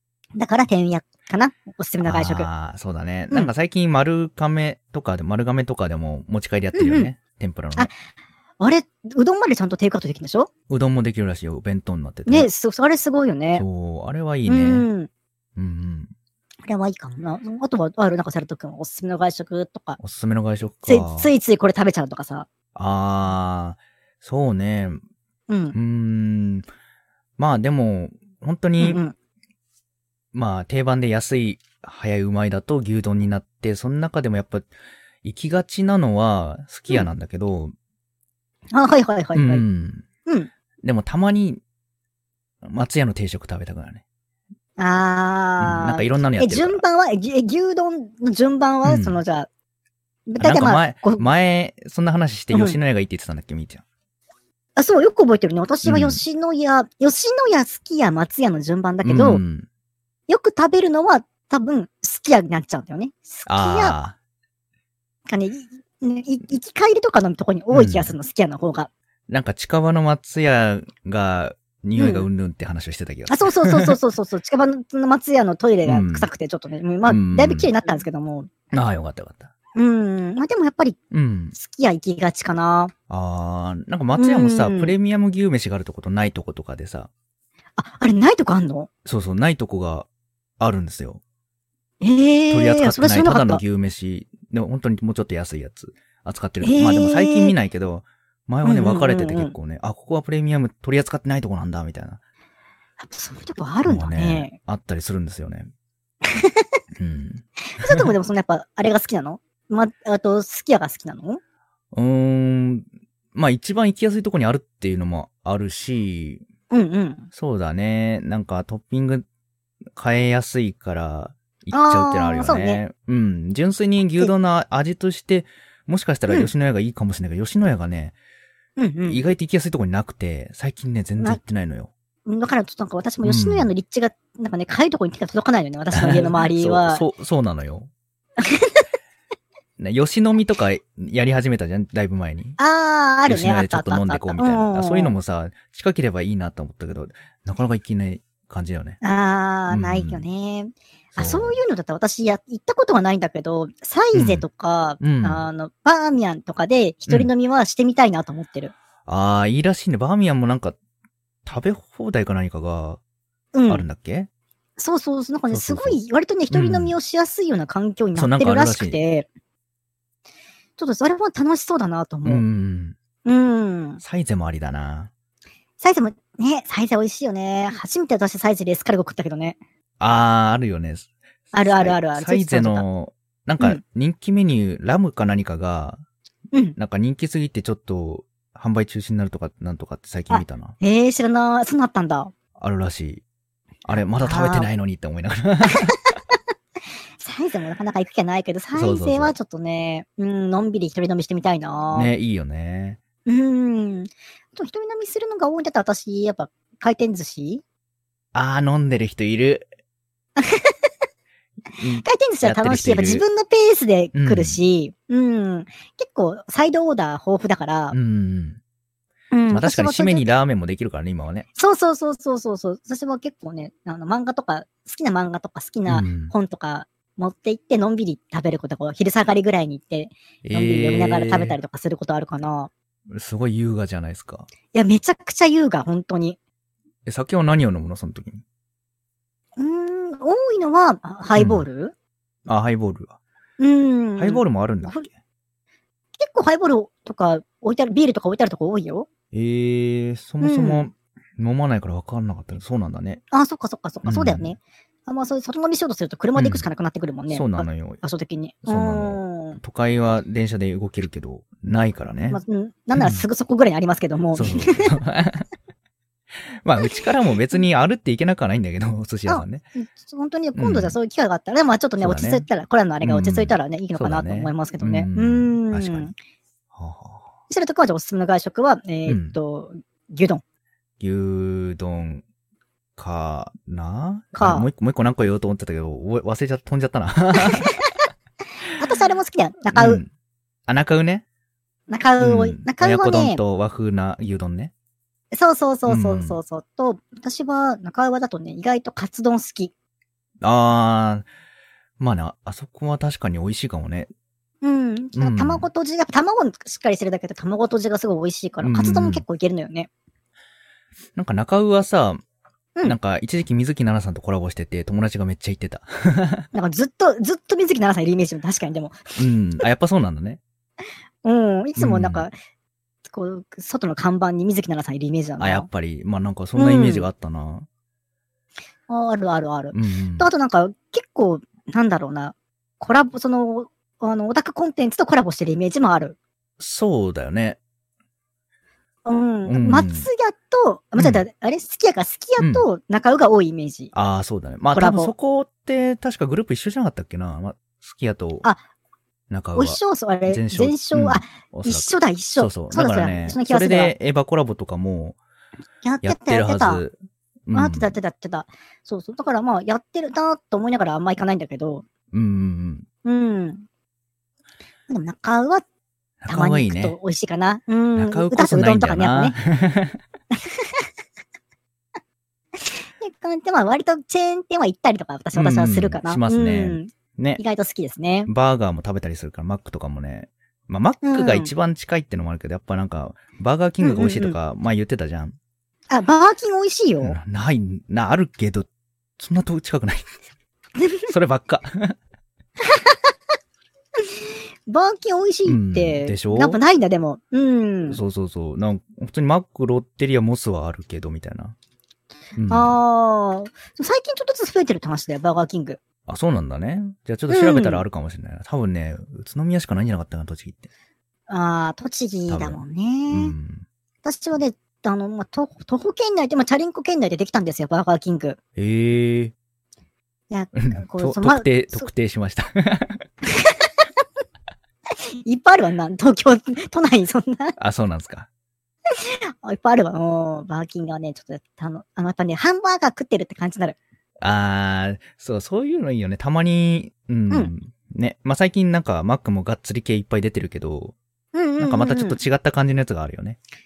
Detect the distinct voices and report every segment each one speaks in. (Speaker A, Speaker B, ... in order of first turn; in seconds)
Speaker A: 0.3-2.5, 6.7-7.1, 8.6-10.5, 12.2-13.6, 14.4-15.1, 16.6-20.0, 20.9-22.5, 25.5-25.8, 28.8-29.1, 38.7-39.6, 40.2-40.5, 44.8-49.5, 50.3-51.2, 52.5-52.8, 54.8-59.4, 60.3-64.0, 65.3-68.9, 72.0-72.3, 73.3-78.5, 79.8-81.0, 81.5-82.9, 84.1-84.9, 87.8-88.9, 92.0-93.6, 96.6-97.5, 98.6-99.5, 103.0-104.5, 107.7-111.4, 116.7-117.3, 121.7-122.8, 128.8-129.2, 132.2-137.0, 138.4-138.8, 142.6-145.1, 149.0-158.7, 163.5-163.8, 164.8-169.3, 170.8-172.4, 173.2-174.0, 175.8-179.6, 181.5-182.8, 190.3-192.3, 194.2-194.7, 197.2-202.1, 203.2-207.6, 210.4-210.7, 211.8-217.9, 219.3-220.2, 221.6-232.7, 234.7-236.4, 239.6-241.9, 243.6-245.1, 246.2-249.1, 250.4-250.9, 253.3-259.6, 262.3-264.9, 269.3-276.1, 277.5-280.4, 284.3-284.7, 288.8-290.0, 291.9-293.4, 295.3-299.7, 304.6-309.9, 316.5-319.0, 321.2-322.3, 323.1-325.7, 326.6-327.1, 328.9-336.1, 339.0-343.9, 344.7-345.1, 349.5-353.9, 355.8-356.8, 357.5-361.9, 363.0-363.6, 364.9-365.6, 366.3-369.4, 370.3-370.8, 372.6-378.3, 381.0-381.5, 383.8-384.4, 385.9-387.2, 390.8-391.1, 394.7-398.0, 402.5-405.8, 407.3-407.8, 411.3-413.3, 414.0-418.4, 420.3-421.9, 425.2-427.6, 429.0-433.8, 441.3-442.2
Speaker B: 2.0-7.9, 10.7-12.5, 13.6-14.9, 15.6-16.1, 20.0-21.3, 22.7-25.0, 25.7-26.6, 27.4-29.0, 30.3-34.7, 35.2-37.7, 39.3-40.0, 40.8-41.6, 42.6-44.0, 45.6-46.8, 48.8-49.2, 50.4-53.8, 55.8-56.2, 59.0-59.7, 63.5-64.2, 67.7-68.1, 69.3-74.0, 75.8-76.3, 77.0-77.7, 78.7-79.5, 81.1-81.5, 83.1-87.1, 89.0-90.1, 90.6-91.2, 92.5-102.2, 103.8-105.7, 106.9-108.1, 111.9-116.4, 117.3-119.2, 119.9-128.1, 129.1-131.9, 133.2-133.7, 135.9-137.9, 139.8-142.6, 143.3-149.0, 149.7-150.2, 151.1-151.6, 154.1-154.4, 155.0-155.4, 159.1-160.8, 161.4-163.0, 163.7-164.3, 165.5-166.0, 166.5-166.9, 168.1-169.0, 172.2-173.0, 174.0-175.1, 180.0-186.0, 186.8-190.7, 192.6-193.2, 193.8-195.9, 198.7-199.3, 201.9-203.0, 208.3-209.7, 211.8-213.2, 214.1-214.6, 217.9-218.6, 219.5-221.4, 225.9-226.3, 230.4-231.6, 233.1-234.5, 237.1-238.4, 241.3-241.6, 242.4-243.2, 244.2-245.1, 249.3-253.2, 254.0-254.5, 256.4-256.6, 257.3-258.0, 258.6-262.4, 262.9-263.2, 264.3-265.4, 266.5-269.6, 270.5-271.0, 272.0-272.5, 273.0-276.1, 276.7-277.3, 279.1-279.4, 281.0-282.2, 283.0-287.7, 289.7-290.1, 290.7-291.2, 292.2-294.7, 295.9-296.4, 300.4-301.2, 302.0-304.1, 305.1-305.6, 308.6-309.2, 311.1-312.2, 312.8-316.5, 319.2-320.4, 321.8-322.3, 325.4-327.7, 329.7-330.3, 336.6-337.6, 339.4-340.1, 341.0-341.2, 342.4-342.6, 343.9-348.4, 349.3-355.2, 356.0-356.9, 357.5-357.9, 362.1-362.9, 366.2-367.0, 367.9-370.0, 375.3-377.4, 378.3-385.4, 387.0-390.1, 391.1-392.0, 395.4-396.6, 397.9-401.5, 402.4-402.8, 406.1-410.7, 412.3-413.6, 418.6-419.3, 420.5-423.0, 427.6-428.3, 434.2-440.9, 441.6-443.4